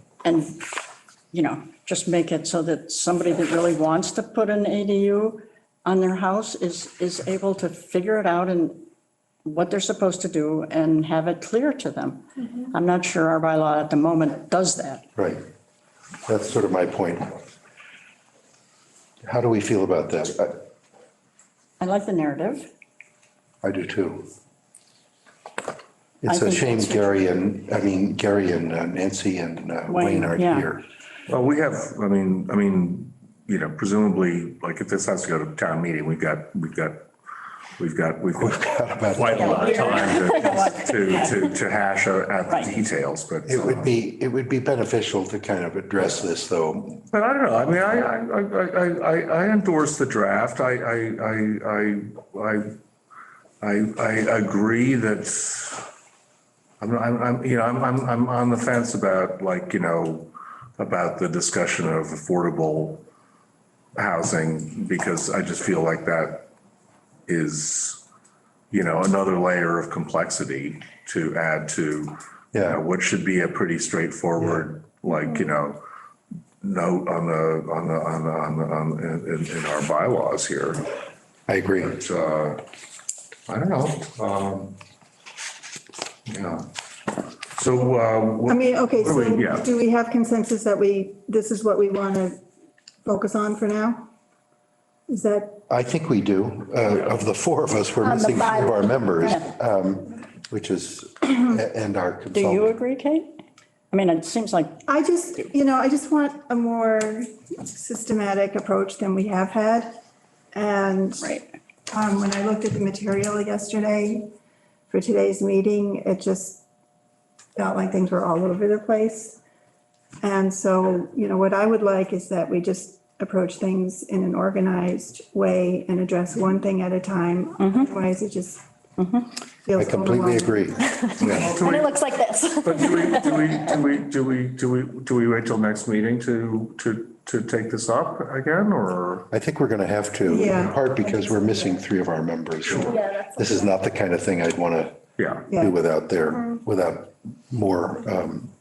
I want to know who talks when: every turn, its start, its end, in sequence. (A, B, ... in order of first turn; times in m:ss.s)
0:00.2-0:00.6 A
0:01.3-0:08.8 A
0:09.4-0:15.1 A
0:15.2-0:15.4 B
0:16.3-0:17.4 B
0:19.2-0:20.6 B
0:21.8-0:22.7 A
0:23.6-0:24.3 B
0:26.2-0:30.8 B
0:26.3-0:27.2 A
0:29.9-0:30.7 A
0:31.3-0:37.1 C
0:37.8-0:43.9 C
0:38.4-0:40.0 B
0:39.4-0:41.4 A
0:43.5-0:47.0 B
0:47.1-0:52.7 C
0:53.6-0:55.9 C
0:56.8-1:03.0 C
1:04.0-1:06.5 C
1:07.3-1:08.0 C
1:08.7-1:15.8 C
1:12.5-1:12.8 B
1:16.6-1:20.8 C
1:21.5-1:22.0 B
1:21.8-1:22.6 C
1:23.5-1:24.8 C
1:26.3-1:26.7 C
1:27.6-1:29.7 C
1:28.5-1:32.4 D
1:33.0-1:34.1 D
1:35.1-1:35.6 D
1:35.7-1:42.8 B
1:38.0-1:38.9 E
1:39.2-1:39.5 A
1:42.3-1:43.3 A
1:43.9-1:44.8 A
1:44.9-1:50.0 D
1:50.5-1:51.3 D
1:51.2-1:51.5 A
1:51.9-1:54.3 D
1:54.9-1:56.6 D
1:57.6-1:59.4 D
2:00.2-2:08.6 D
2:07.6-2:07.9 A
2:09.0-2:09.3 A
2:09.6-2:10.7 D
2:09.8-2:11.4 B
2:10.8-2:13.5 E
2:11.2-2:11.9 C
2:12.6-2:19.3 C
2:19.3-2:28.5 B
2:20.2-2:21.8 D
2:22.7-2:22.9 C
2:22.9-2:23.7 E
2:25.2-2:25.5 C
2:26.3-2:26.6 E